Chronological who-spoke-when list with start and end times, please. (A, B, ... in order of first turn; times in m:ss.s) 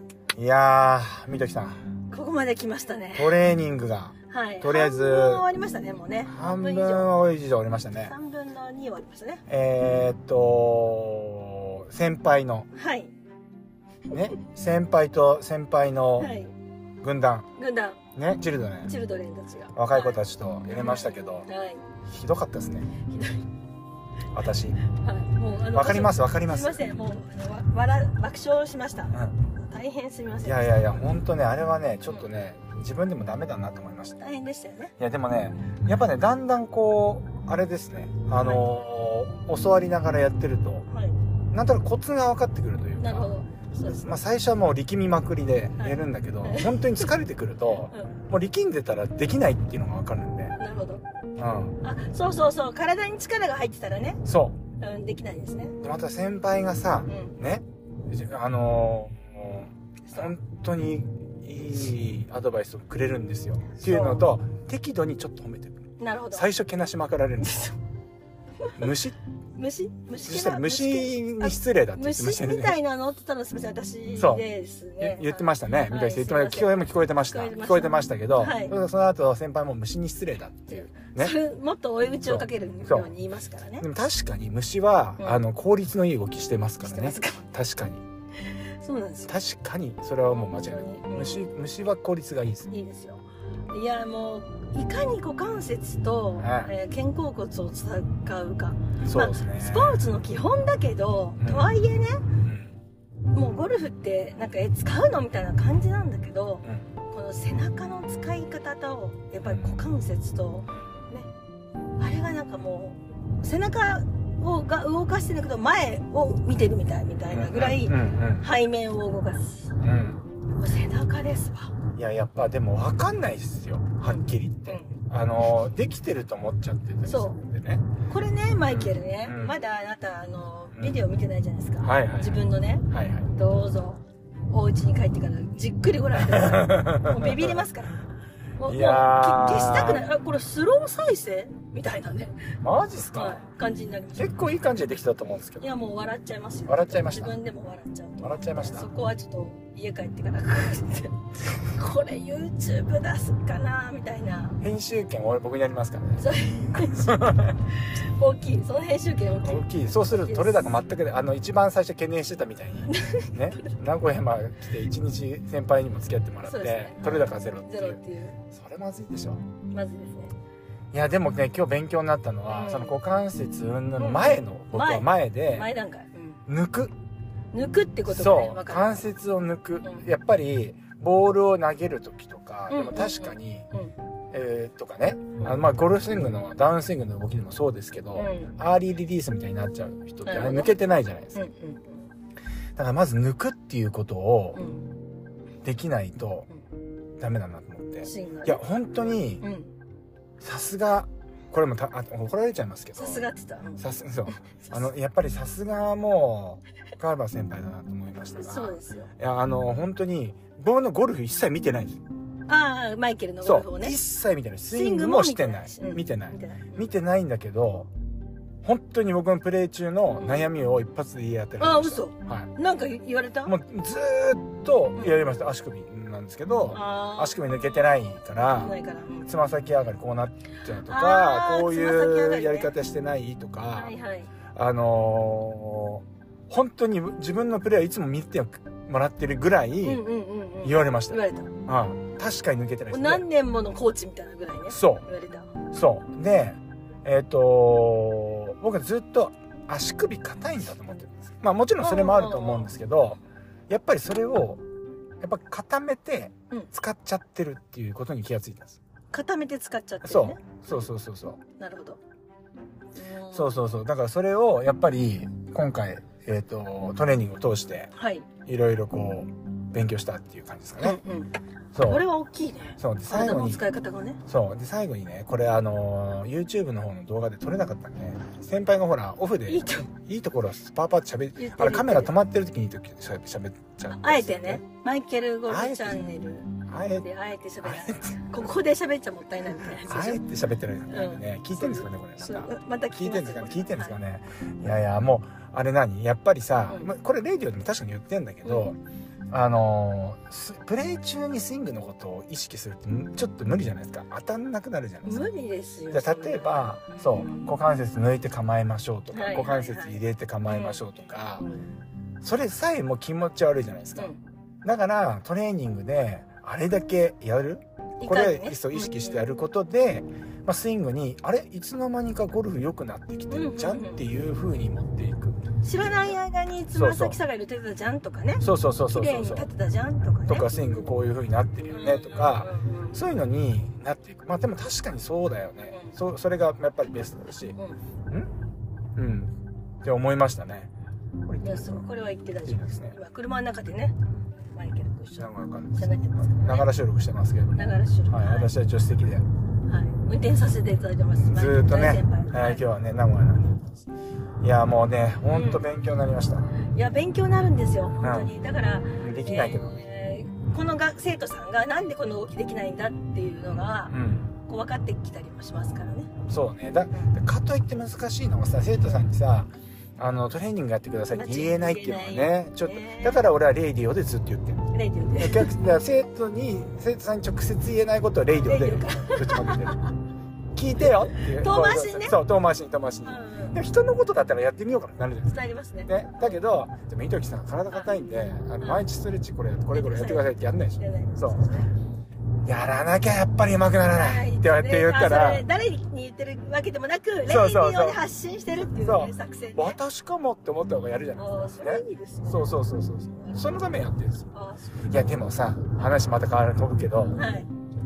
0:00.3-0:01.8 A
0:02.1-0:03.3 B
0:03.1-0:05.4 A
0:04.3-0:07.1 B
0:06.2-0:08.2 A
0:08.0-0:09.4 B
0:09.5-0:12.7 A
0:12.7-0:13.1 B
0:14.1-0:16.3 A
0:16.2-0:16.5 B
0:17.0-0:17.5 A
0:17.6-0:18.0 B
0:18.1-0:18.9 A
0:18.8-0:21.8 B
0:19.7-0:21.5 A
0:22.1-0:22.9 A
0:23.1-0:23.4 B
0:24.3-0:24.8 A
0:24.9-0:31.0 B
0:25.7-0:26.8 A
0:30.4-0:34.2 A
0:34.2-0:34.9 B
0:35.0-0:40.8 A
0:38.4-0:38.7 B
0:40.9-0:41.1 B
0:41.5-0:50.5 A
0:43.0-0:44.2 B
0:45.8-0:47.1 B
0:50.6-0:51.0 B
0:51.4-0:51.8 A
0:51.8-0:54.2 B
0:54.2-0:54.6 A
0:54.8-0:55.7 B
0:55.8-1:07.7 A
0:57.1-0:57.3 B
1:03.8-1:04.3 B
1:06.0-1:06.5 B
1:07.4-1:07.7 B
1:08.8-1:09.2 A
1:09.6-1:18.8 B
1:10.2-1:12.8 A
1:14.1-1:14.4 A
1:15.0-1:21.4 A
1:20.7-1:23.8 B
1:22.2-1:23.1 A
1:23.8-1:28.0 A
1:25.2-1:25.4 B
1:26.8-1:27.4 B
1:28.8-1:29.3 B
1:29.3-1:32.7 A
1:30.3-1:31.5 B
1:32.7-1:42.2 B
1:36.4-1:36.7 A
1:39.0-1:40.2 A
1:41.4-1:41.7 A
1:42.4-1:42.8 A
1:43.3-1:51.3 B
1:49.4-1:49.9 A
1:52.0-1:59.7 B
1:57.3-1:58.5 A
1:59.8-2:00.2 A
2:00.6-2:01.7 B
2:02.0-2:07.8 A
2:04.0-2:05.0 B
2:07.0-2:07.4 B
2:08.1-2:18.0 B
2:08.6-2:09.6 A
2:10.7-2:11.0 A
2:11.8-2:13.3 A
2:16.2-2:17.7 A
2:18.6-2:22.4 B
2:18.6-2:20.1 A
2:22.6-2:23.4 A
2:23.1-2:24.4 B
2:24.2-2:25.7 A
2:25.6-2:34.6 B
2:26.7-2:27.4 A
2:28.2-2:28.9 A
2:34.6-2:37.6 A
2:36.2-2:37.2 B
2:37.8-2:40.7 B
2:39.4-2:49.4 A
2:42.9-2:43.7 B
2:46.4-2:48.4 B
2:49.7-2:50.3 B
2:50.9-2:55.7 A
2:52.5-2:53.0 B
2:54.0-2:56.4 B
2:56.5-2:56.9 A
2:57.5-2:59.1 B
2:58.1-3:03.7 A
3:02.7-3:03.9 B
3:04.3-3:11.5 A
3:05.4-3:05.6 B
3:08.2-3:08.6 B
3:10.2-3:10.8 B
3:11.3-3:12.1 B
3:12.8-3:14.6 A
3:14.5-3:14.9 B
3:15.6-3:16.5 A
3:17.2-3:19.4 A
3:18.0-3:18.6 B
3:19.4-3:19.7 B
3:20.4-3:32.0 A
3:23.0-3:24.9 B
3:28.4-3:29.1 B
3:32.5-3:34.0 B
3:33.4-3:37.9 A
3:34.7-3:36.8 B
3:38.6-3:42.5 A
3:40.2-3:40.5 B
3:41.6-3:43.6 B
3:43.4-3:53.9 A
3:45.0-3:45.2 B
3:46.7-3:47.6 B
3:48.6-3:49.3 B
3:50.9-3:52.7 B
3:53.7-3:54.3 B
3:54.5-4:00.0 A
3:59.8-4:01.5 B
4:00.6-4:03.2 A
4:02.9-4:05.5 B
4:04.7-4:05.1 A
4:05.7-4:14.6 A
4:11.8-4:12.7 B
4:15.2-4:18.8 A
4:19.1-4:20.8 B
4:20.0-4:21.4 A
4:21.6-4:22.0 B
4:23.0-4:23.6 B
4:23.3-4:27.9 A
4:28.0-4:28.3 B
4:28.4-4:31.0 A
4:30.8-4:34.2 B
4:31.7-4:32.1 A
4:32.8-4:33.6 A
4:34.3-4:44.6 A
4:39.5-4:39.9 B
4:41.4-4:42.1 B
4:43.9-4:46.5 B
4:45.5-4:46.1 A
4:46.7-4:47.1 A
4:47.0-4:50.2 B
4:47.6-4:48.2 A
4:49.7-4:58.8 A
4:50.9-4:54.0 B
4:58.4-4:58.7 B
4:59.3-5:05.3 A
5:05.0-5:07.5 B
5:05.9-5:11.5 A
5:09.1-5:10.8 B
5:11.4-5:11.7 B
5:12.2-5:14.1 A
5:14.6-5:26.2 A
5:18.0-5:19.2 B
5:23.3-5:24.0 B
5:25.6-5:30.6 B
5:26.7-5:27.2 A
5:28.4-5:29.5 A
5:30.2-5:37.6 A
5:31.7-5:33.0 B
5:35.7-5:36.0 B
5:39.0-5:39.3 A
5:39.8-5:40.7 A
5:41.2-5:41.9 A
5:41.4-5:44.0 B
5:42.4-5:43.0 A
5:44.5-5:46.7 B
5:45.2-5:49.2 A
5:47.5-5:48.5 B
5:49.7-5:52.6 B
5:51.2-5:53.8 A
5:54.4-5:56.5 A
5:55.3-5:55.6 B
5:56.7-6:06.1 B
5:58.0-5:58.3 A
5:59.0-5:59.8 A
6:03.9-6:04.3 A
6:06.3-6:14.6 A
6:11.1-6:13.3 B
6:14.7-6:15.5 B
6:15.2-6:19.8 A
6:18.4-6:19.9 B
6:20.5-6:31.5 A
6:20.9-6:22.2 B
6:23.0-6:23.6 B
6:25.2-6:25.9 B
6:28.3-6:28.9 B
6:29.7-6:31.7 B
6:32.4-6:35.5 A
6:33.8-6:39.8 B
6:37.2-6:38.0 A
6:38.6-6:44.3 A
6:41.2-6:42.6 B
6:43.2-6:43.5 B
6:44.3-6:45.2 B
6:44.9-6:47.2 A
6:47.2-6:47.5 B